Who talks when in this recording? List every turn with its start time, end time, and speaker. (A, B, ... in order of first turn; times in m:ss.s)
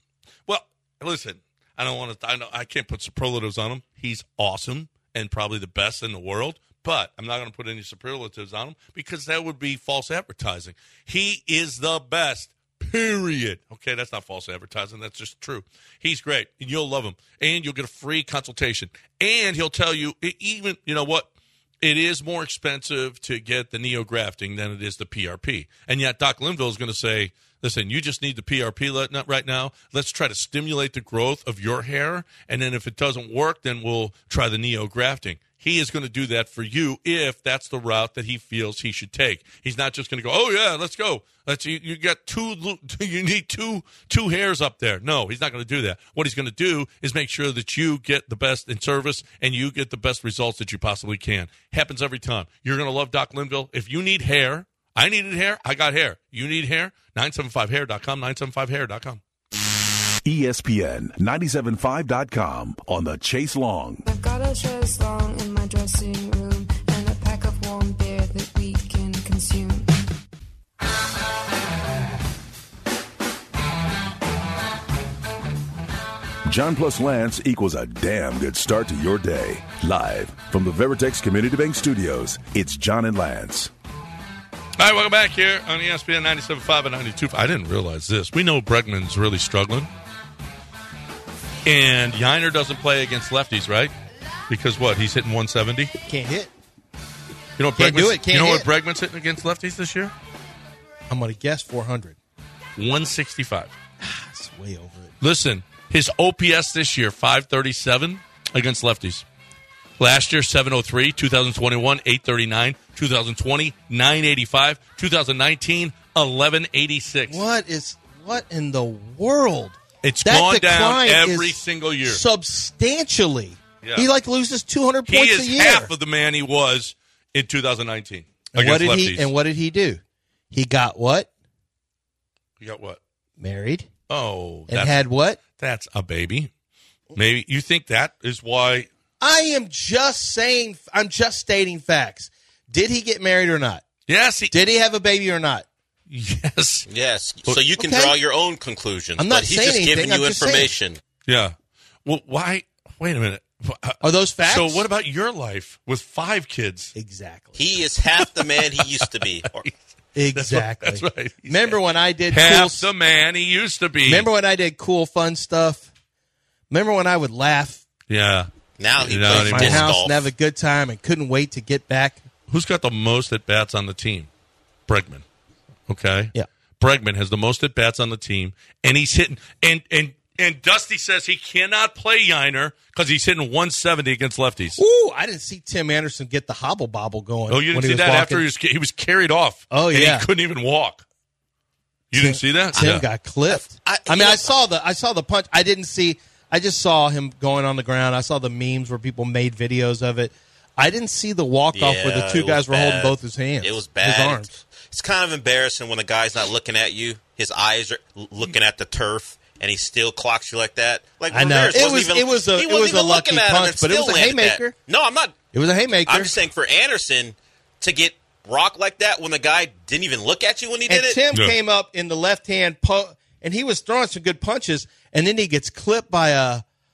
0:00.5-0:21.3 A
0:21.8-0:59.2 A
1:00.2-1:04.0 B
1:04.0-1:09.9 C
1:16.4-1:23.7 B
1:24.8-1:29.9 A
1:31.6-1:33.9 A
1:34.5-1:35.9 A
1:36.1-1:36.5 D
1:37.6-1:40.1 A
1:37.8-1:38.7 D
1:41.1-1:42.2 D
1:42.8-1:43.8 A
1:44.0-1:45.1 D
1:45.2-1:49.2 A
1:50.0-1:57.4 A
1:57.3-2:05.9 D
2:00.0-2:02.2 A
2:03.8-2:04.1 A
2:05.1-2:09.3 A
2:08.5-2:10.0 D
2:10.5-2:11.3 D
2:12.6-2:13.0 A
2:13.4-2:13.9 D
2:14.1-2:16.5 A
2:14.7-2:15.4 D
2:17.2-2:18.9 A
2:19.2-2:23.8 D
2:24.1-2:24.5 A
2:24.5-2:25.7 D
2:26.1-2:26.9 A
2:26.9-2:31.0 E
2:27.8-2:28.2 D
2:29.2-2:30.7 D
2:31.3-2:36.9 A
2:34.0-2:34.9 D
2:37.0-2:37.6 D
2:37.6-2:39.6 E
2:38.2-2:39.7 A
2:40.2-2:42.9 D
2:40.3-2:44.3 A
2:44.1-2:45.9 D
2:46.7-2:47.8 D
2:48.1-2:49.9 A
2:48.8-2:50.3 E
2:49.3-2:52.2 D
2:52.5-2:54.3 A
2:54.9-2:55.2 A
2:55.9-3:04.8 A
3:04.8-3:08.4 D
3:07.5-3:11.0 A
3:09.7-3:10.3 D
3:12.1-3:13.0 A
3:12.1-3:24.5 D
3:13.5-3:14.5 E
3:21.7-3:35.4 E
3:31.3-3:34.8 D
3:35.5-3:36.3 D
3:36.1-3:41.2 E
3:40.9-3:46.6 D